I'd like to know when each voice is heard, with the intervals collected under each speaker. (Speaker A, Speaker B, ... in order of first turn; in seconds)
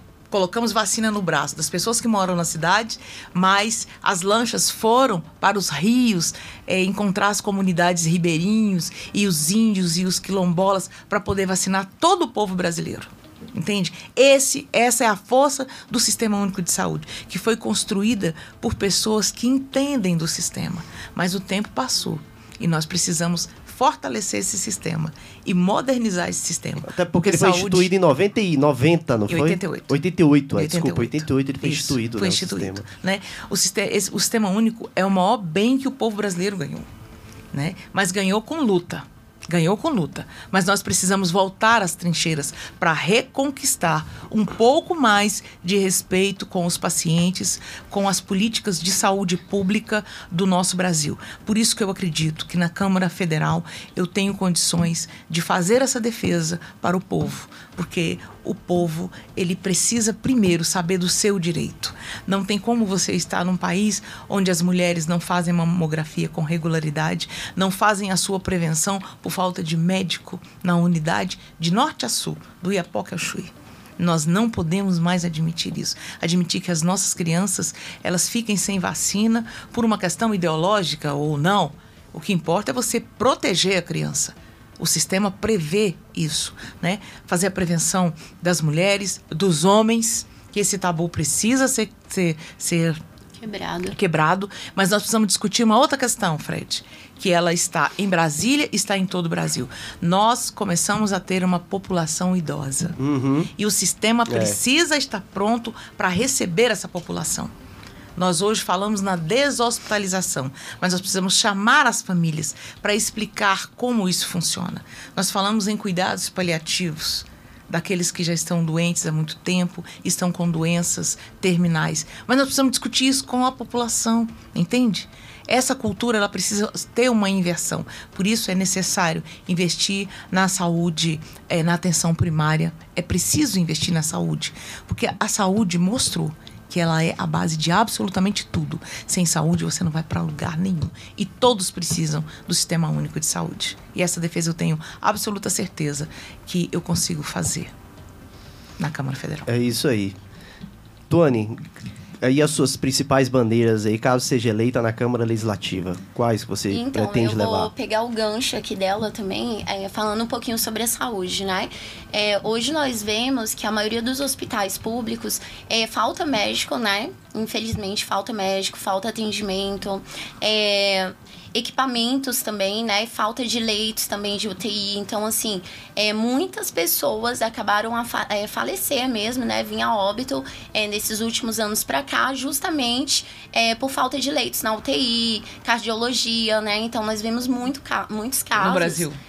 Speaker A: 0.3-27.9, 29.3-30.0, 30.5-36.9, 37.5-93.0, 93.9-103.0, 103.6-107.5, 108.2-147.7, 148.8-149.5, 188.6-189.2
Speaker B: 26.8-32.9, 103.0-103.5, 104.3-104.6, 149.5-150.1, 151.1-151.6, 152.2-157.7
Speaker C: 93.4-94.0, 156.7-189.1